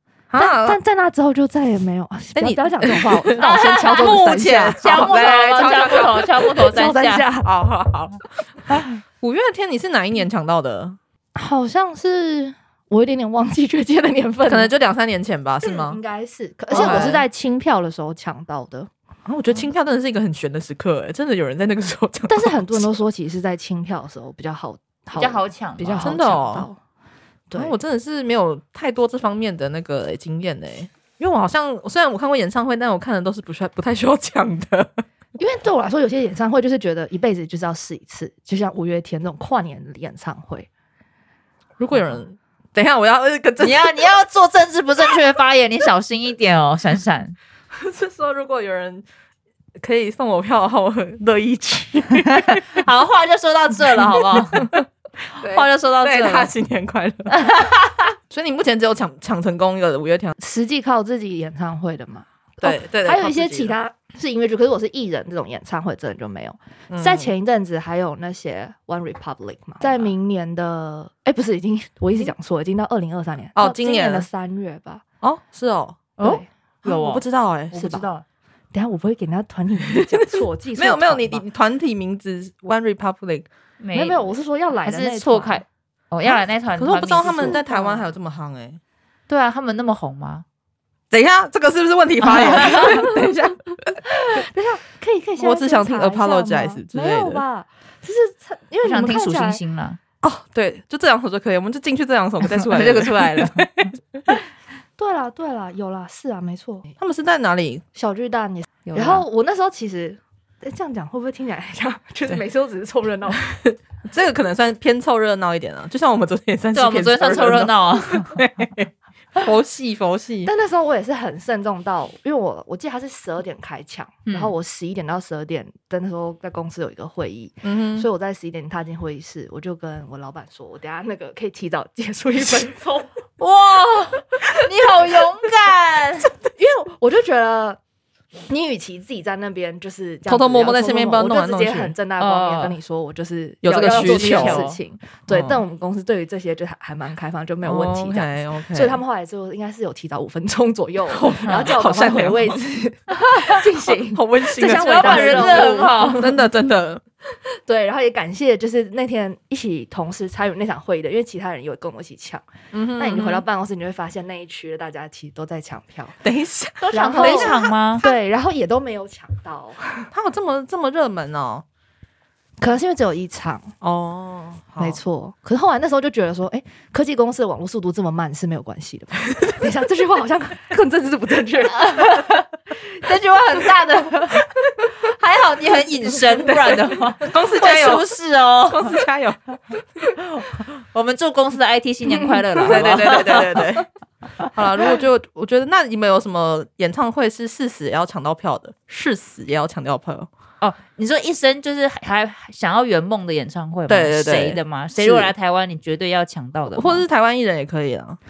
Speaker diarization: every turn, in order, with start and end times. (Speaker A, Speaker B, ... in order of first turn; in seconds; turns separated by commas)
Speaker A: 0.3-0.8, Speaker B: 0.4-7.5, Speaker A: 2.4-8.2, Speaker C: 3.4-4.2, Speaker C: 4.8-7.3, Speaker A: 9.2-11.0, Speaker B: 11.3-14.7, Speaker A: 14.5-16.0, Speaker B: 15.6-18.9, Speaker A: 16.7-17.2, Speaker C: 16.7-17.2, Speaker A: 19.3-22.9, Speaker B: 22.3-26.8, Speaker C: 25.2-26.2, Speaker A: 26.0-26.7, Speaker B: 27.5-27.8, Speaker A: 27.6-34.9, Speaker B: 35.4-40.7, Speaker A: 41.8-44.0, Speaker C: 43.6-47.4, Speaker A: 47.7-49.0, Speaker A: 49.8-52.8, Speaker C: 52.3-54.7, Speaker A: 54.5-54.8, Speaker A: 55.4-57.5, Speaker C: 55.4-56.5, Speaker C: 57.3-58.1, Speaker A: 58.3-60.4, Speaker B: 60.4-75.0, Speaker A: 62.6-63.8, Speaker A: 66.9-67.3, Speaker A: 73.6-74.3, Speaker A: 75.2-76.2, Speaker C: 76.2-78.2, Speaker B: 76.2-76.5, Speaker A: 76.8-77.8, Speaker B: 77.7-78.1, Speaker B: 78.7-81.4, Speaker A: 79.9-83.5, Speaker C: 83.8-87.6, Speaker B: 83.9-85.6, Speaker A: 86.3-88.8, Speaker B: 87.2-88.0, Speaker C: 89.3-90.5, Speaker A: 91.1-93.9, Speaker C: 92.2-93.0, Speaker B: 92.7-93.5, Speaker B: 94.0-99.6, Speaker A: 95.4-97.4, Speaker C: 98.8-100.0, Speaker A: 100.2-104.2, Speaker C: 102.5-103.7, Speaker B: 105.0-107.0, Speaker A: 107.0-107.8, Speaker B: 108.0-113.6, Speaker C: 108.9-109.2, Speaker A: 113.7-120.5, Speaker C: 116.7-118.5, Speaker B: 120.5-133.2, Speaker C: 124.3-124.5, Speaker A: 127.6-128.1, Speaker C: 133.4-136.3, Speaker B: 136.5-137.8, Speaker B: 138.5-156.3, Speaker A: 140.3-141.9, Speaker C: 142.2-142.8, Speaker A: 143.6-144.7, Speaker C: 143.8-144.8, Speaker A: 145.3-145.6, Speaker A: 147.6-149.0, Speaker A: 151.1-152.6, Speaker C: 151.5-151.7, Speaker A: 153.6-157.0, Speaker C: 154.6-156.3, Speaker B: 157.7-162.4, Speaker A: 162.7-163.4, Speaker B: 163.0-166.2, Speaker A: 166.2-168.2, Speaker C: 166.8-168.0, Speaker B: 166.9-170.1, Speaker A: 170.1-171.7, Speaker B: 172.6-173.8, Speaker A: 173.8-175.0, Speaker B: 174.8-182.3, Speaker C: 181.8-184.5, Speaker C: 185.0-189.0, Speaker A: 186.4-189.4, Speaker C: 190.2-193.8, Speaker B: 192.6-193.4, Speaker A: 192.6-193.9, Speaker A: 194.5-200.3, Speaker C: 200.6-207.1, Speaker A: 203.9-205.3, Speaker A: 206.7-208.2